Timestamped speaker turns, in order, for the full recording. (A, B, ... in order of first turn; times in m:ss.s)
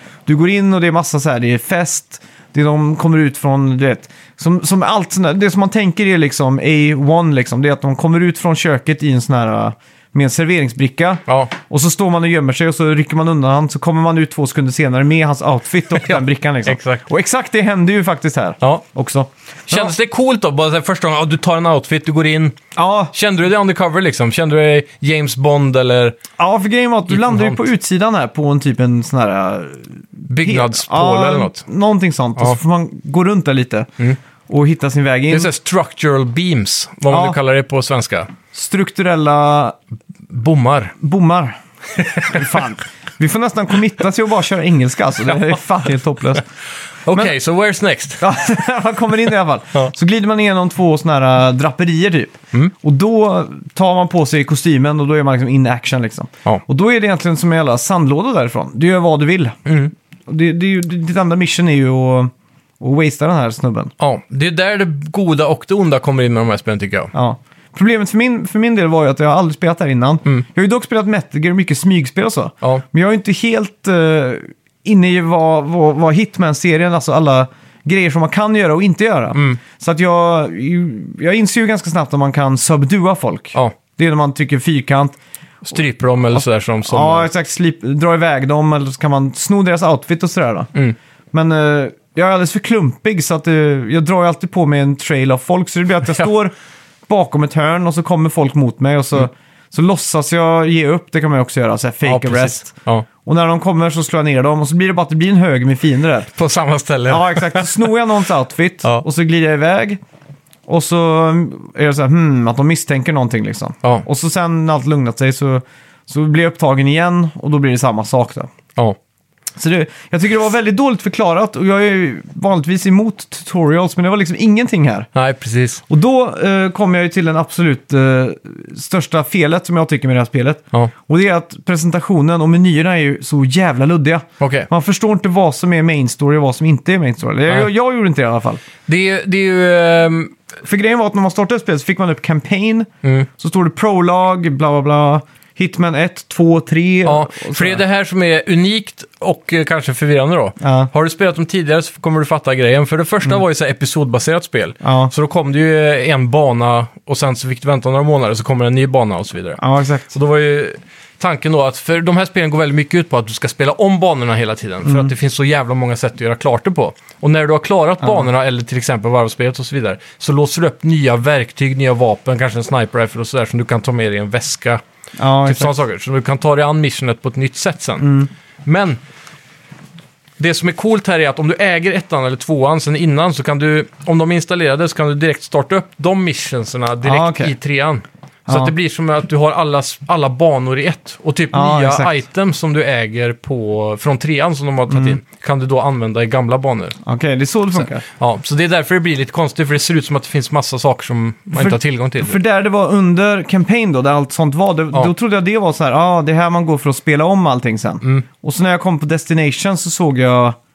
0:00.3-0:19.9 A
0:11.3-0:11.5 B
0:15.9-0:17.0 B
0:19.7-0:22.6 B
0:22.8-0:23.1 A
0:23.1-0:26.2 B
0:26.4-0:33.9 A
0:27.1-0:27.6 B
0:30.3-0:31.6 B
0:34.5-0:35.5 A
0:35.3-0:38.3 B
0:37.1-0:37.4 A
0:38.5-0:39.8 A
0:40.3-0:41.0 B
0:41.0-0:41.6 A
0:41.9-0:42.7 B
0:42.3-0:46.4 A
0:47.0-0:48.3 B
0:48.2-0:59.6 A
0:59.7-0:59.9 B
1:00.3-1:03.9 A
1:04.0-1:07.1 B
1:07.1-1:25.2 A
1:19.3-1:19.6 B
1:25.6-1:27.3 B
1:26.3-1:30.7 A
1:31.3-1:36.5 A
1:37.1-1:42.7 A
1:42.0-1:43.1 B
1:43.2-1:46.3 A
1:46.4-1:47.9 B
1:47.1-1:50.0 A
1:50.7-1:58.5 A
1:59.6-2:05.1 A
2:05.2-2:05.8 B
2:05.9-2:18.6 A
2:14.4-2:14.7 B
2:18.9-2:20.4 B
2:20.6-2:27.8 A
2:23.0-2:23.3 B
2:27.0-2:54.8 B
2:30.6-2:30.9 A
2:34.8-2:35.1 A
2:39.6-2:40.1 A
2:44.8-2:45.1 A
2:48.0-2:48.3 A
2:55.2-2:55.7 A
2:55.4-2:58.1 B
2:58.0-2:58.3 A
2:58.6-2:59.0 B
3:00.4-3:17.0 B
3:07.0-3:07.5 A
3:08.5-3:08.7 A
3:11.5-3:12.2 A
3:14.9-3:15.2 A
3:17.0-3:18.0 A
3:17.8-3:22.4 B
3:21.5-3:30.6 A